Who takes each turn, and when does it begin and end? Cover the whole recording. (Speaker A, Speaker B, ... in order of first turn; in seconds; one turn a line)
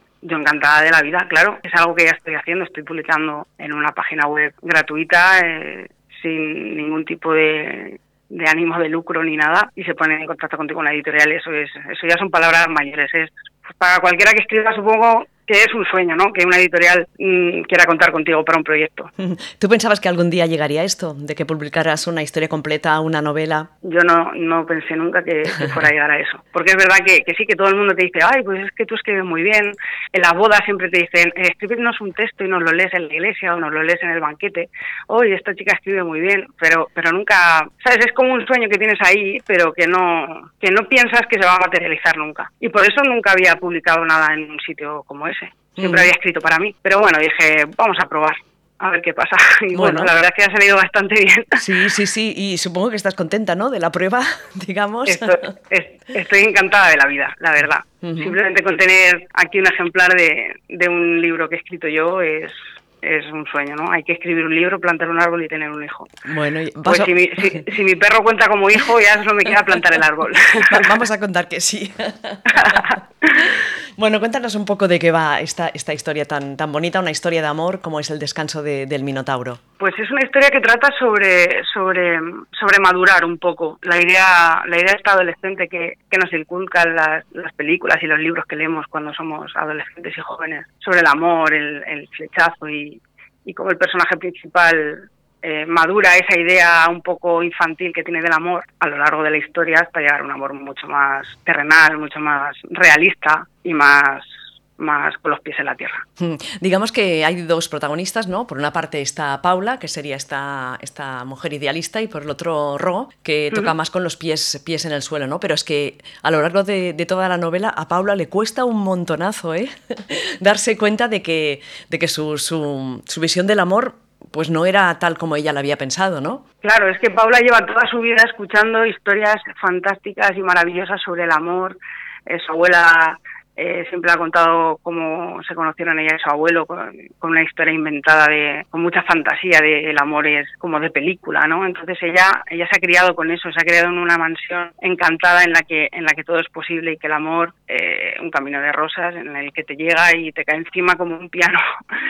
Speaker A: 0.2-19.1
Speaker B: 19.2-23.7
Speaker A: 23.8-51.6
Speaker B: 45.8-46.1
Speaker B: 49.7-50.1
Speaker B: 51.6-55.5
Speaker A: 55.1-66.2
Speaker B: 58.0-58.4
Speaker B: 66.2-67.6
Speaker A: 66.8-70.9
Speaker B: 70.6-79.6
Speaker A: 72.5-73.4
Speaker A: 79.8-106.0
Speaker B: 106.2-126.4
Speaker A: 126.6-151.6